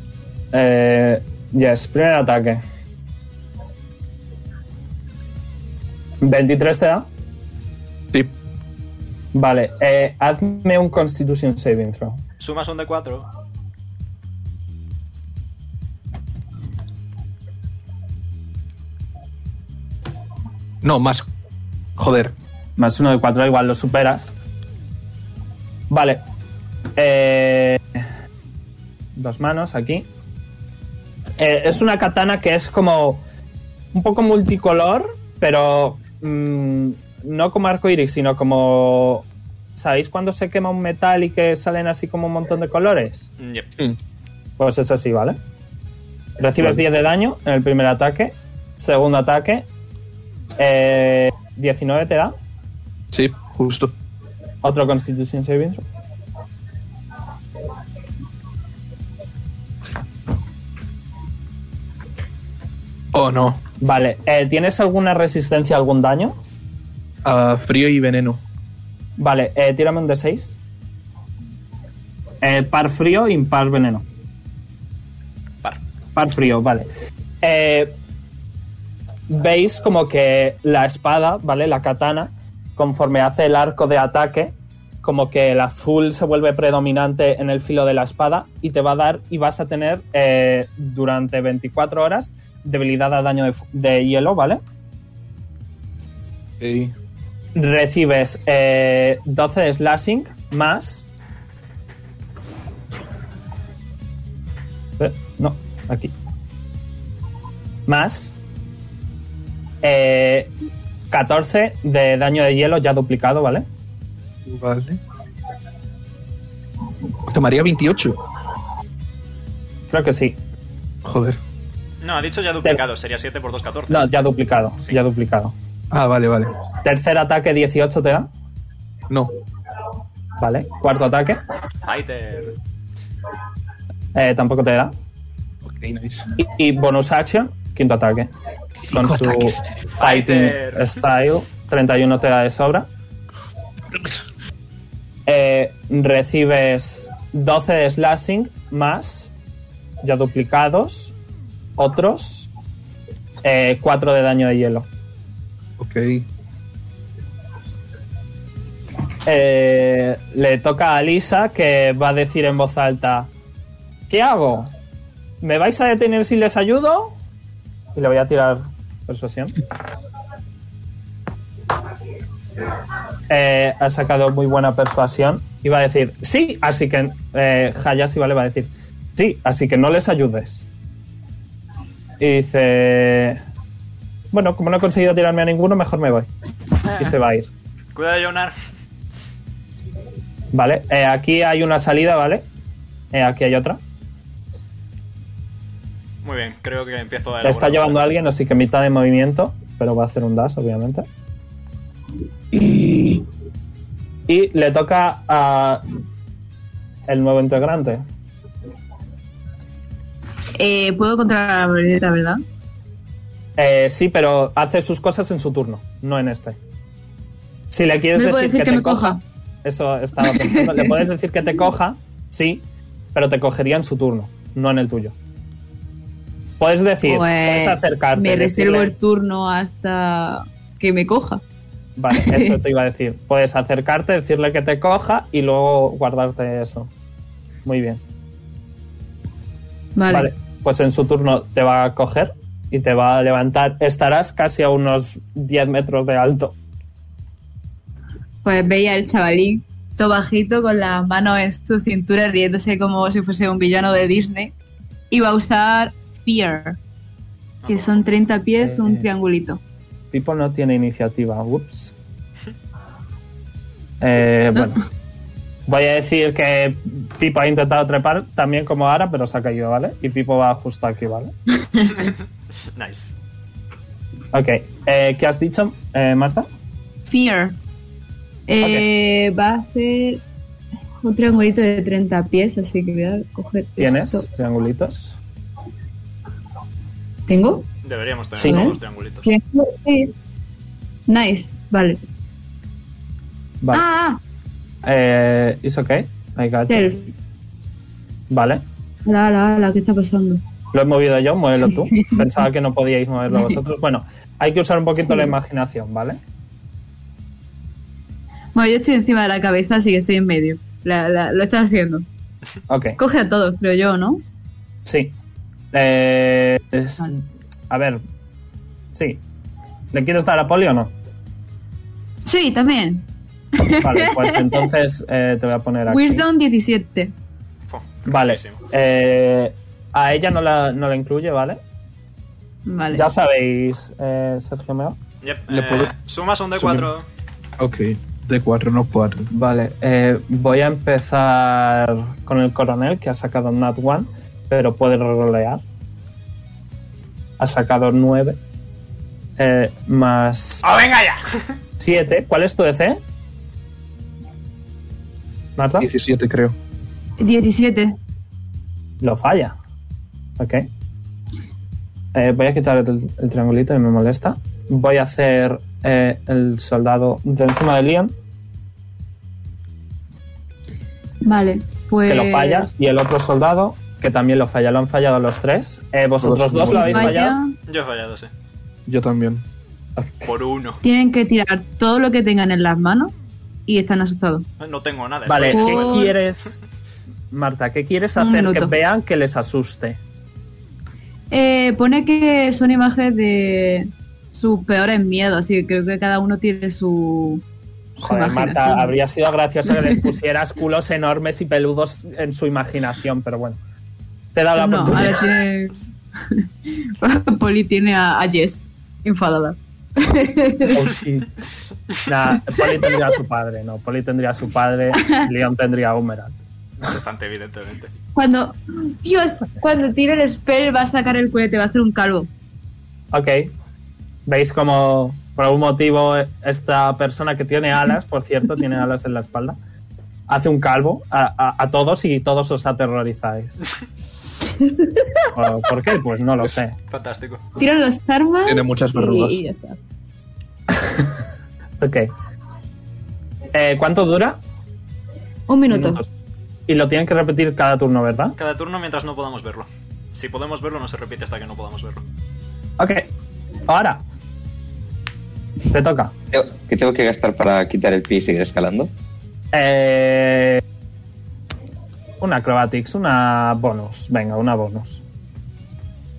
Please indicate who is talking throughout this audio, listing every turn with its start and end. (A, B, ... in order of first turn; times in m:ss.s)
0:00.5-0:02.6 A
0:06.2-0:07.0 A
0:09.3-0:12.2 A
0:12.4-0:13.3 B
0:20.8-0:21.3 C
0:22.0-0:22.3 C
0:22.8-0:24.3 A
0:25.9-0:26.2 A
0:27.0-0:27.8 A
0:29.1-0:30.1 A
0:31.4-0:33.2 A
0:33.9-0:39.2 A
0:39.8-0:43.3 A
0:43.4-0:43.7 B
0:44.6-0:45.4 A
0:46.4-0:49.6 A
0:50.6-0:52.3 A
0:53.1-0:53.9 C
0:54.6-0:55.8 A
1:03.1-1:03.6 C
1:03.8-1:06.4 A
1:07.2-1:08.4 C
1:09.2-1:10.6 A
1:12.4-1:14.0 A
1:16.1-1:16.9 A
1:17.4-1:17.9 A
1:19.3-1:34.6 A
1:36.6-1:36.9 C
1:37.6-1:41.0 A
1:45.0-1:46.1 A
1:47.9-1:48.3 A
1:49.8-1:50.5 A
1:51.1-1:53.6 A
1:54.4-1:55.0 C
1:57.2-1:58.2 C
1:59.9-2:00.4 A
2:01.0-2:01.4 C
2:02.0-2:04.1 B
2:03.9-2:05.5 A
2:05.9-2:06.5 C
2:06.8-2:08.3 A
2:10.4-2:11.4 A
2:11.8-2:12.5 B
2:14.1-2:14.9 A
2:15.6-2:16.3 C
2:16.4-2:18.3 A
2:18.8-2:19.7 C
2:18.8-2:22.9 A
2:20.0-2:21.0 B
2:25.3-2:29.3 A
2:30.0-2:31.1 A
2:31.8-2:32.5 A
2:33.4-2:34.9 A
2:35.8-2:36.2 C
2:39.2-2:43.3 A
2:44.1-2:44.7 A
2:45.4-2:47.1 A
2:47.9-2:49.5 A
2:53.3-3:00.7 A
3:02.2-3:03.4 A
3:04.3-3:06.3 A
3:07.0-3:07.5 A
3:07.9-3:08.6 B
3:10.5-3:12.4 A
3:13.1-3:13.8 A
3:16.2-3:18.0 B
3:17.4-3:21.0 A
3:24.3-3:25.8 A
3:27.1-3:28.0 A
3:30.6-3:32.4 D
3:33.6-3:36.6 A
3:37.7-3:45.1 A
3:38.1-3:39.2 D
3:40.2-3:41.0 D
3:46.6-3:48.9 A
3:47.0-3:51.4 D
3:52.0-3:56.9 A
3:52.1-3:52.6 D
3:57.6-3:58.0 A
4:00.0-4:00.3 D
4:00.1-4:06.5 A
4:08.4-4:14.5 D
4:15.1-4:16.8 D
4:17.6-4:18.1 B
4:17.7-4:19.6 D
4:18.6-4:19.1 A
4:20.1-4:21.9 A
4:24.0-4:24.8 A
4:25.7-4:31.3 A
4:32.7-4:33.1 B
4:34.3-4:36.5 A
4:37.1-4:37.6 D
4:38.5-4:40.2 D
4:38.6-4:38.9 A
4:41.0-4:44.2 D
4:43.8-4:45.2 A
4:47.3-4:47.6 D
4:47.8-4:49.3 B
4:48.4-4:48.7 A
4:48.4-4:50.1 D
4:51.1-4:52.0 D
4:53.7-4:54.2 D
4:54.8-4:57.0 A
4:56.7-4:57.1 D
4:58.3-4:58.6 A
4:59.0-5:00.4 D
5:00.7-5:06.2 A
5:01.7-5:02.2 D
5:05.0-5:05.3 D
5:08.5-5:12.0 D
5:12.7-5:13.0 A
5:13.0-5:14.2 D
5:14.8-5:15.1 A
5:15.7-5:18.0 A
5:18.9-5:19.2 A
5:19.9-5:20.9 A
5:22.2-5:23.0 D
5:23.6-5:24.6 D
5:23.8-5:26.2 A
5:25.9-5:27.1 D
5:27.7-5:28.6 B
5:28.1-5:31.6 A
5:32.6-5:33.1 D
5:32.9-5:35.0 A
5:35.2-5:37.0 B
5:35.5-5:35.9 C
5:36.5-5:36.9 C
5:37.6-5:39.3 C
5:39.3-5:45.6 A
5:47.4-5:48.4 A
5:49.4-5:50.7 A
5:50.6-5:51.5 B
5:51.8-5:53.0 A
5:55.6-5:55.9 A
5:55.8-5:56.6 C
5:57.2-5:58.0 D
5:59.0-5:59.5 A
6:00.4-6:00.6 A
6:02.1-6:08.1 A
6:11.2-6:12.7 D
6:12.0-6:17.4 A
6:16.2-6:17.2 C
6:16.6-6:17.5 D
6:17.7-6:18.3 B
6:18.8-6:19.4 C
6:20.0-6:20.3 A
6:20.2-6:20.8 B
6:20.8-6:23.1 D
6:23.7-6:24.4 D
6:24.6-6:26.1 B
6:25.2-6:26.6 A
6:25.4-6:26.1 D
6:27.3-6:30.0 A
6:28.2-6:28.7 D
6:31.3-6:37.4 D
6:38.0-6:38.9 D
6:38.0-6:43.6 A
6:44.3-6:45.2 A
6:44.6-6:45.7 D
6:47.0-6:50.8 D
6:50.7-6:51.3 A
6:52.0-6:56.4 A
6:56.8-6:57.9 B
6:58.1-7:02.3 D
7:03.1-7:03.5 A
7:04.3-7:09.6 A
7:10.3-7:13.6 A
7:14.6-7:15.1 D
7:15.3-7:16.7 A
7:16.9-7:17.4 B
7:17.6-7:19.8 D
7:18.4-7:19.4 C
7:21.8-7:22.1 A
7:23.5-7:24.4 A
7:25.5-7:26.0 D
7:25.7-7:26.0 A
7:26.7-7:28.4 A
7:28.4-7:32.0 B
7:32.8-7:33.1 A
7:33.7-7:34.0 A
7:35.7-7:36.1 A
7:36.3-7:38.9 E
7:39.5-7:40.6 A
7:42.2-7:45.0 A